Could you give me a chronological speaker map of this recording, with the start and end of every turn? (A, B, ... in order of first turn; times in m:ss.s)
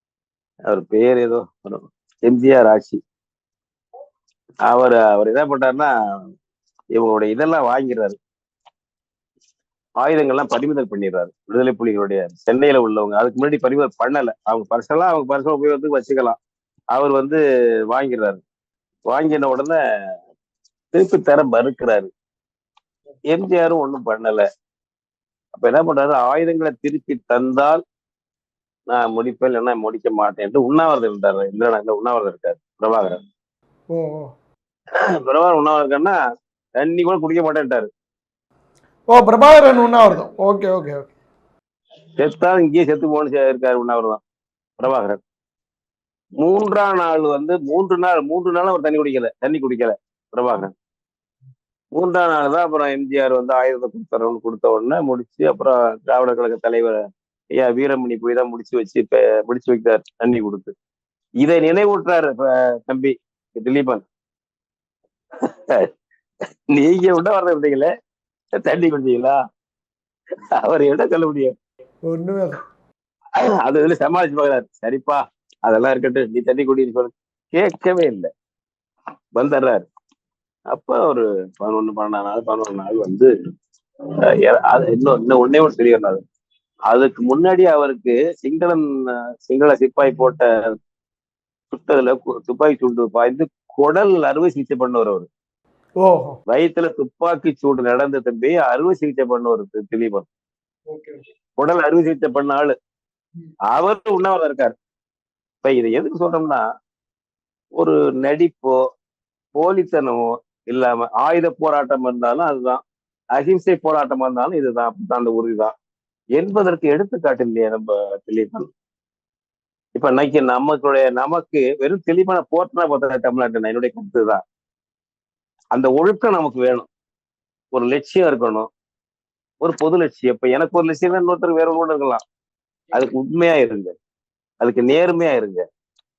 0:00.7-0:03.0 A
0:04.7-0:05.9 A
0:06.9-0:08.2 A
0:10.0-0:16.4 A
0:16.9-0:18.4 A
0:19.1-0:19.8 A
0:20.9-0:22.1 A
0:23.3-0:24.4 A
0:25.5-0:27.8 A
0:28.9-0:33.2 A
0:33.9-0:34.3 B
0:35.2-0:36.2 A
0:36.8-0:37.9 A
0:39.1-0:41.1 B
0:42.2-0:44.2 A
0:44.8-0:45.2 A
0:46.4-0:50.7 A
0:51.9-0:57.0 A
0:57.5-1:00.7 A
1:01.4-1:04.0 A
1:05.4-1:05.9 A
1:06.7-1:07.9 A
1:08.6-1:09.4 A
1:10.6-1:11.5 A
1:12.1-1:12.6 B
1:13.4-1:18.3 A
1:19.3-1:19.8 A
1:20.7-1:23.3 A
1:24.2-1:26.2 A
1:26.9-1:30.4 A
1:31.7-1:35.3 A
1:36.0-1:36.4 B
1:36.5-1:40.3 A
1:40.9-1:41.2 B
1:41.6-1:42.7 A
1:43.7-1:44.7 A
1:45.6-1:46.6 A
1:47.8-1:48.8 A
1:49.5-1:52.8 A
1:53.3-1:55.7 A
1:56.4-1:58.7 A
1:59.9-2:04.4 A
2:05.7-2:06.9 A
2:07.7-2:08.7 A
2:09.6-2:12.2 A
2:12.9-2:13.9 A
2:14.6-2:15.6 A